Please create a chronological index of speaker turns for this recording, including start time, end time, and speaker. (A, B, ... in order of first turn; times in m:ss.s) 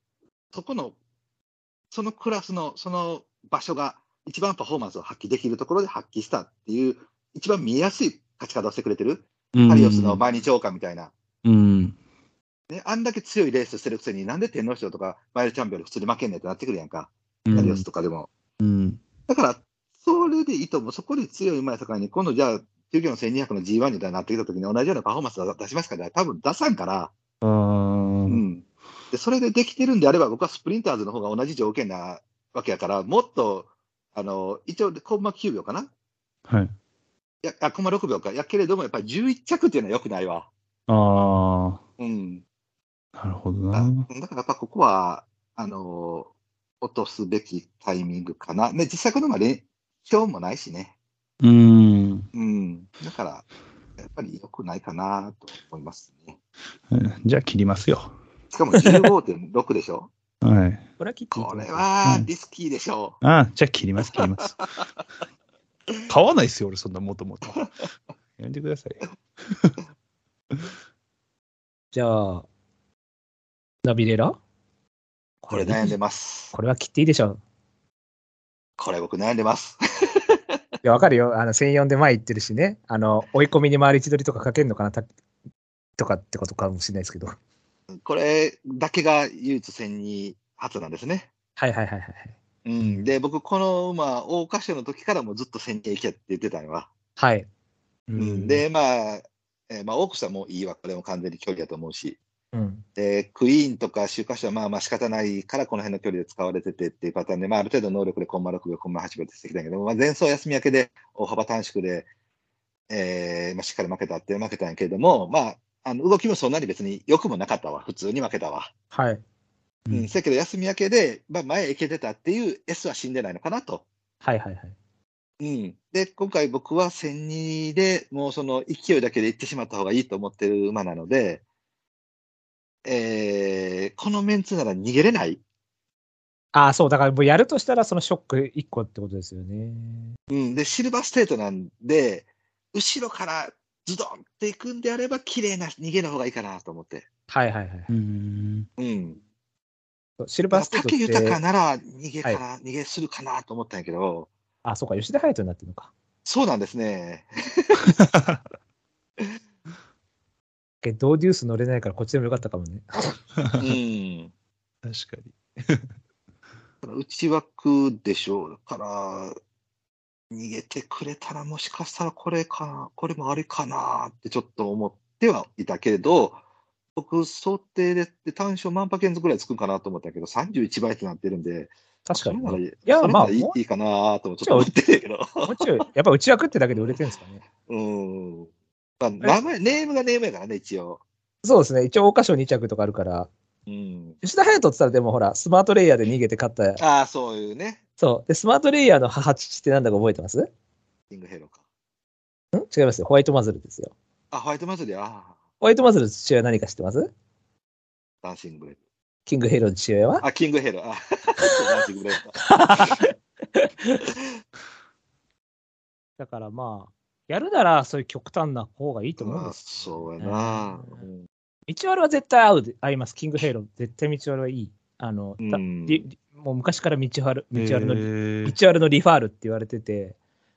0:00.5-0:01.0 A
0:01.9-0:11.1 A
0:09.6-0:10.2 B
0:11.4-0:12.0 B
0:12.7-0:18.3 A
0:17.5-0:17.8 B
0:18.6-0:19.0 B
0:19.3-0:27.1 A
0:27.4-0:28.4 B
0:28.3-0:35.9 A
0:37.4-0:40.5 A
0:40.9-0:41.8 B
0:42.0-0:42.4 A
0:43.2-0:44.1 B
0:43.7-0:50.9 A
0:51.4-0:52.3 B
0:52.3-0:53.5 A
0:54.0-0:56.4 A
0:56.9-0:58.1 B
0:58.5-1:00.1 A
1:00.4-1:00.9 B
1:01.0-1:01.9 C
1:01.3-1:03.2 A
1:03.2-1:04.6 B
1:06.1-1:07.6 B
1:08.4-1:09.8 B
1:11.9-1:12.5 C
1:13.8-1:14.4 C
1:15.4-1:15.9 C
1:15.5-1:16.5 A
1:16.5-1:17.4 C
1:18.8-1:20.4 A
1:20.8-1:25.1 C
1:26.0-1:27.4 C
1:28.0-1:31.3 A
1:31.6-1:32.4 C
1:32.6-1:36.9 A
1:37.2-1:37.5 C
1:38.1-1:38.6 B
1:38.2-1:42.2 A
1:42.5-1:42.8 C
1:43.0-1:52.1 A
1:52.9-1:58.7 A
1:58.9-1:59.2 C
1:59.9-2:03.8 A
2:04.2-2:04.8 C
2:05.4-2:11.4 A
2:12.8-2:15.4 A
2:16.5-2:20.1 C
2:20.3-2:27.1 A
2:27.3-2:27.9 C
2:27.9-2:28.7 B
2:28.8-2:29.2 A
2:30.2-2:31.4 C
2:30.5-2:34.3 A
2:34.6-2:35.9 C
2:36.2-2:37.9 A
2:38.0-2:38.4 B
2:40.8-2:43.2 C
2:43.6-2:44.3 A
2:44.8-2:45.9 B
2:46.8-2:49.4 A
2:50.3-2:56.4 A
2:57.0-3:05.8 A
3:02.1-3:03.6 C
3:04.4-3:04.7 C
3:05.4-3:07.4 C
3:07.6-3:11.0 A
3:11.4-3:13.3 C
3:13.7-3:14.2 A
3:14.2-3:16.8 C
3:16.8-3:17.8 A
3:18.0-3:20.5 C
3:21.1-3:21.6 A
3:22.5-3:23.9 C
3:24.3-3:25.4 A
3:25.6-3:27.1 C
3:28.2-3:28.8 A
3:29.3-3:30.2 C
3:30.2-3:33.0 A
3:32.4-3:34.0 C
3:36.2-3:41.0 C
3:39.2-3:41.2 A
3:41.7-3:50.2 C
3:45.4-3:46.0 A
3:47.5-3:48.6 B